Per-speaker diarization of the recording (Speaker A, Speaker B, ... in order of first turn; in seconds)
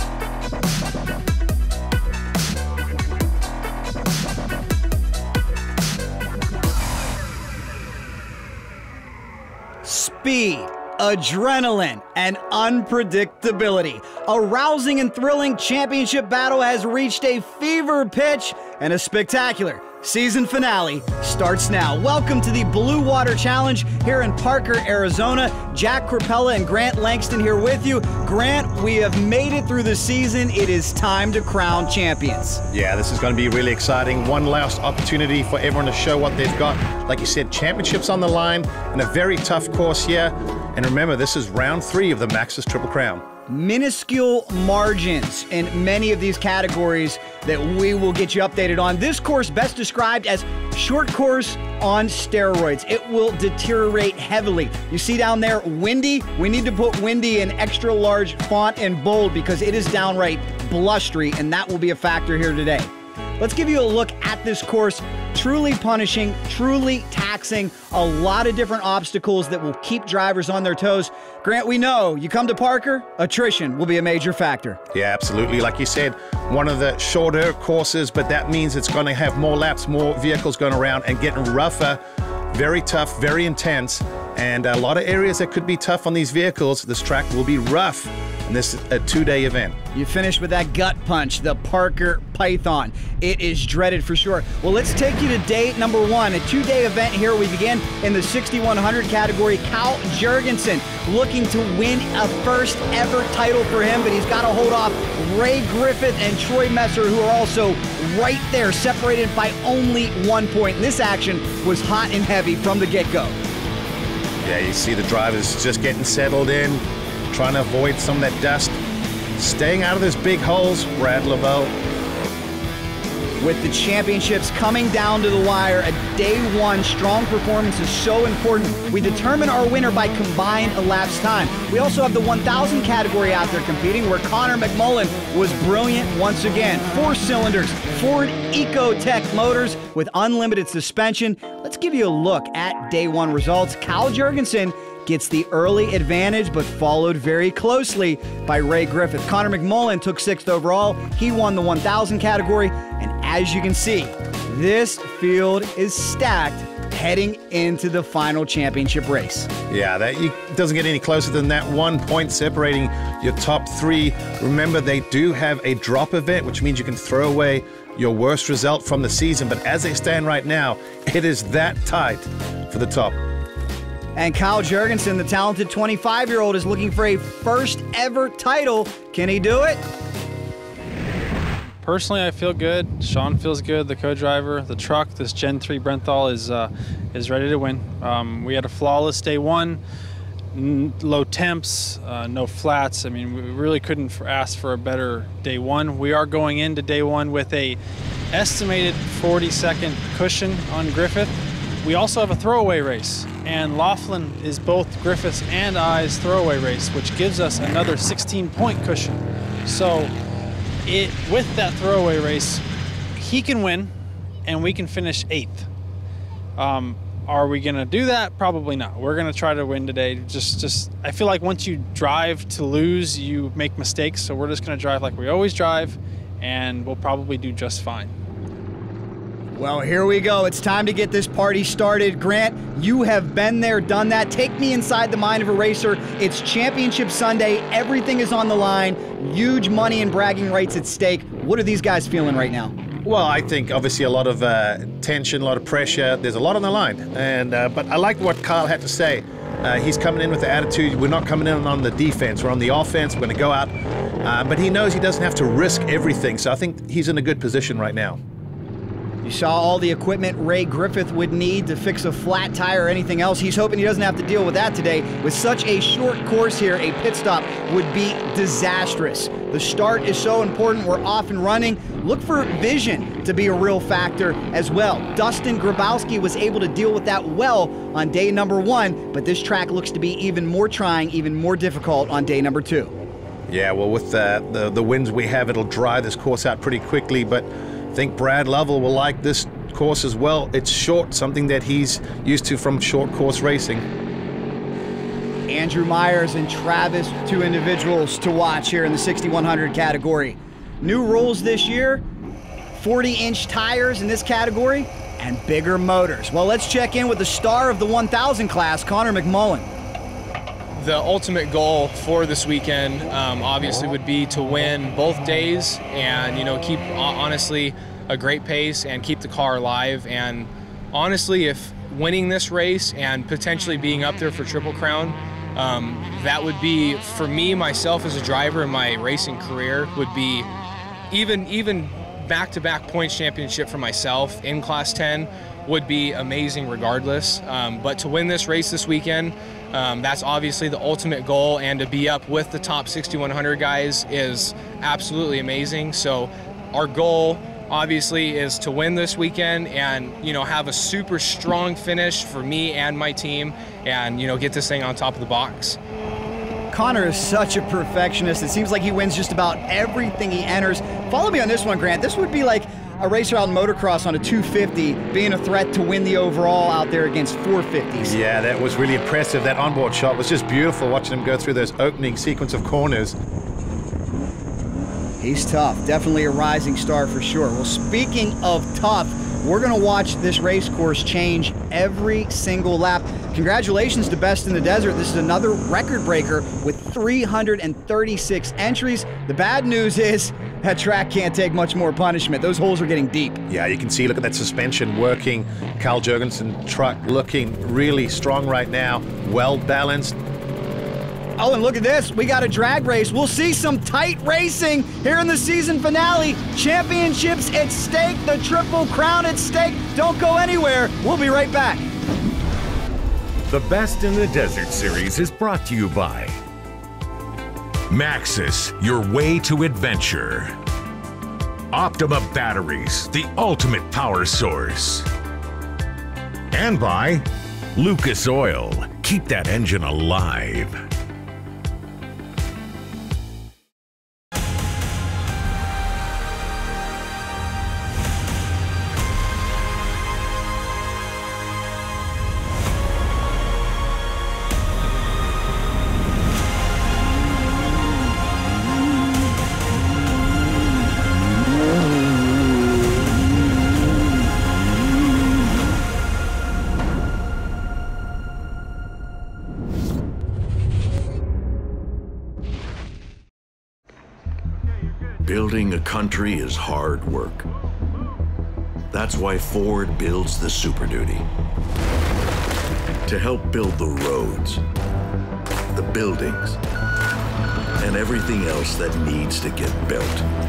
Speaker A: 9.8-32.6, 43.5-74.8, 89.9-113.4, 123.4-159.5, 174.2-179.8, 229.5-242.7, 259.2-282.9, 295.5-302.0, 302.7-309.7, 356.7-368.1, 375.2-393.4, 401.4-411.9
Speaker B: 32.7-43.2, 74.9-89.8, 114.4-118.8, 119.4-121.7, 159.7-173.2, 243.0-253.7, 254.2-258.2, 283.5-293.8, 368.0-373.2, 393.5-400.2
Speaker C: 181.8-189.8, 190.5-197.8, 198.3-210.1, 210.8-212.6, 213.2-213.9, 214.4-215.7, 216.6-228.1
Speaker D: 310.8-330.5, 331.1-355.8
Speaker E: 413.5-416.4, 417.9-420.5, 421.7-425.1, 426.5-430.8
Speaker F: 465.2-467.5, 468.9-471.3, 473.1-474.6, 475.7-476.6, 477.8-480.2